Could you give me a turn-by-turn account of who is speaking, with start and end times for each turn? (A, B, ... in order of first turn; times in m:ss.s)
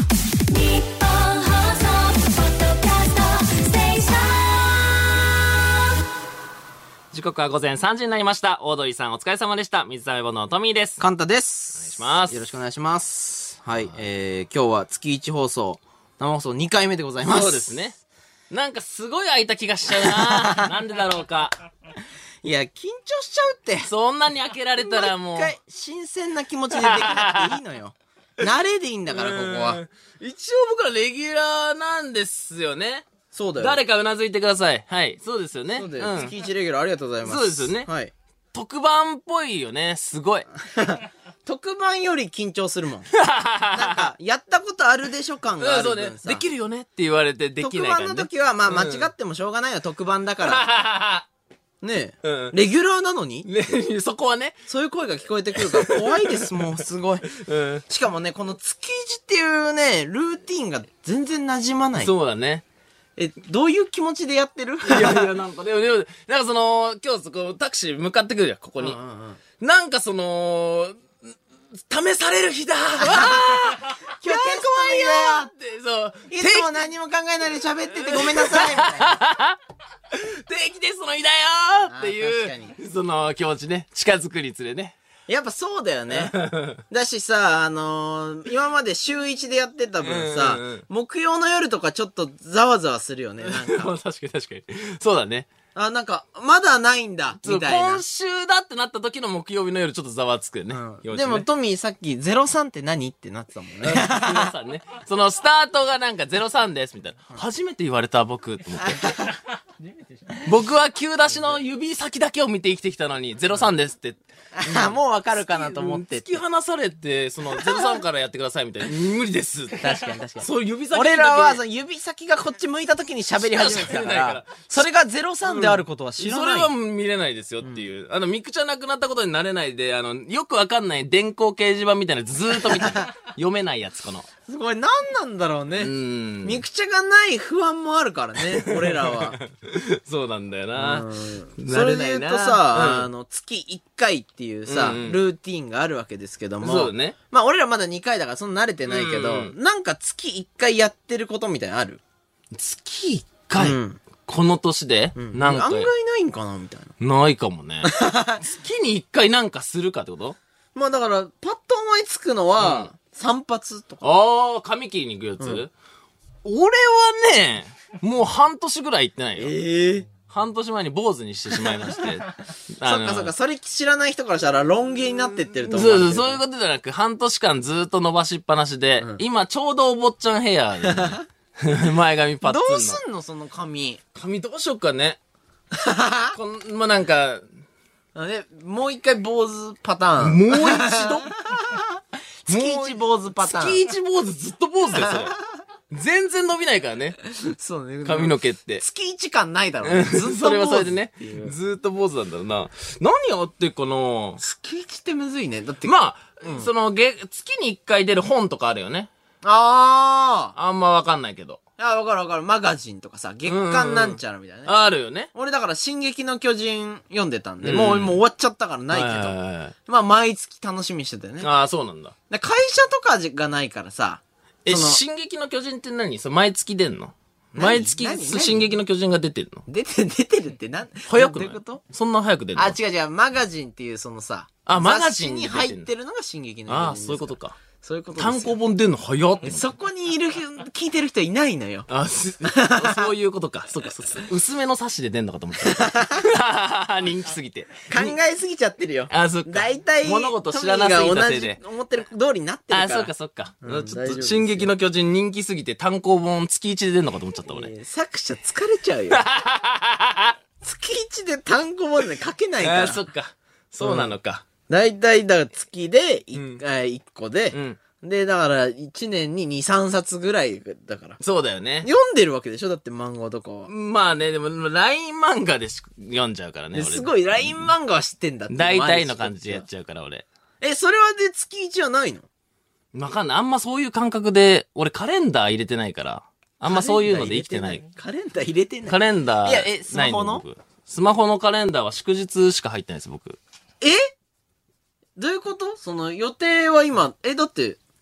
0:00.5-0:05.0 A
0:07.1-0:11.0 B
0:11.0-0:17.7 C
0:11.8-0:12.4 B
0:17.2-0:18.0 B
0:18.5-0:21.6 B
0:19.9-0:20.7 C
0:22.4-0:23.9 C
0:23.8-0:25.5 B
0:24.8-0:29.8 C
0:26.8-0:27.5 B
0:29.1-0:36.4 B
0:33.3-0:33.8 C
0:35.7-0:38.1 C
0:37.2-0:37.9 B
0:38.5-0:40.5 B
0:40.6-0:43.1 C
0:43.1-0:44.0 B
0:43.7-0:46.4 C
0:45.6-0:49.1 B
0:47.6-0:50.6 C
0:50.4-0:51.3 B
0:51.8-0:53.5 C
0:52.2-0:52.6 B
0:53.4-0:54.6 B
0:54.7-0:57.3 C
0:55.6-0:56.7 B
0:57.3-0:57.8 B
0:57.9-1:02.1 C
1:02.0-1:02.6 B
1:03.2-1:05.3 C
1:04.8-1:09.0 B
1:08.8-1:09.4 C
1:09.6-1:11.0 B
1:11.9-1:16.8 B
1:13.0-1:15.5 C
1:16.3-1:19.2 C
1:17.9-1:19.6 B
1:20.1-1:25.0 B
1:21.9-1:22.8 C
1:25.3-1:26.3 C
1:26.1-1:26.8 B
1:26.9-1:33.9 C
1:30.0-1:30.8 B
1:33.4-1:35.5 B
1:35.8-1:38.0 C
1:37.4-1:41.5 B
1:40.7-1:44.5 C
1:43.8-1:49.2 B
1:48.8-1:49.3 C
1:50.4-2:01.6 B
1:54.6-1:56.4 C
1:57.5-1:58.0 C
1:59.8-2:06.7 C
2:03.4-2:04.7 B
2:05.5-2:14.3 B
2:12.7-2:13.1 C
2:14.5-2:15.9 C
2:15.8-2:16.6 B
2:16.4-2:19.4 C
2:18.5-2:23.1 B
2:20.8-2:32.0 C
2:24.7-2:25.2 B
2:26.6-2:27.2 B
2:28.9-2:29.5 B
2:32.5-2:35.9 B
2:33.6-2:34.0 C
2:35.2-2:36.9 C
2:37.0-2:40.4 B
2:37.8-2:38.4 C
2:40.8-2:44.2 C
2:42.6-2:42.9 B
2:44.0-2:45.7 B
2:46.4-2:49.6 B
2:49.4-2:50.1 C
2:50.2-2:53.3 B
2:52.8-2:56.4 C
2:55.7-3:03.0 B
3:00.8-3:01.2 C
3:02.4-3:04.0 C
3:04.1-3:05.2 B
3:05.7-3:06.4 C
3:06.3-3:07.4 B
3:08.2-3:13.8 C
3:10.2-3:11.3 B
3:12.5-3:15.4 B
3:15.0-3:15.3 C
3:15.9-3:17.2 B
3:17.4-3:21.5 C
3:18.0-3:18.8 B
3:19.8-3:24.4 B
3:24.4-3:26.7 C
3:25.8-3:29.1 B
3:29.4-3:30.5 C
3:30.6-3:31.6 B
3:31.8-3:34.7 C
3:33.5-3:35.3 B
3:35.3-3:39.3 C
3:37.6-3:38.2 B
3:38.9-3:39.7 B
3:39.9-3:41.5 C
3:41.4-3:42.2 B
3:42.3-3:45.0 C
3:44.6-3:49.6 B
3:47.5-3:48.6 C
3:49.7-3:51.8 C
3:51.1-3:52.8 B
3:52.6-3:58.5 C
3:54.7-3:55.9 B
3:56.7-3:57.6 B
3:58.2-3:59.7 B
3:59.4-4:01.9 C
4:01.9-4:08.2 B
4:02.4-4:03.1 C
4:05.6-4:06.2 C
4:07.9-4:13.1 C
4:09.1-4:11.6 B
4:12.7-4:17.7 B
4:13.6-4:14.7 C
4:17.5-4:19.2 C
4:19.1-4:20.4 B
4:20.6-4:23.0 C
4:22.6-4:24.4 B
4:23.8-4:24.2 C
4:24.7-4:31.2 C
4:26.3-4:26.6 B
4:27.5-4:27.8 B
4:31.2-4:31.9 B
4:31.8-4:33.7 C
4:33.7-4:37.7 B
4:36.7-4:39.7 C
4:38.5-4:40.3 B
4:40.6-4:42.3 C
4:42.9-4:47.8 B
4:46.6-4:50.4 C
4:48.9-4:53.4 B
4:53.8-4:54.1 C
4:55.2-4:57.8 C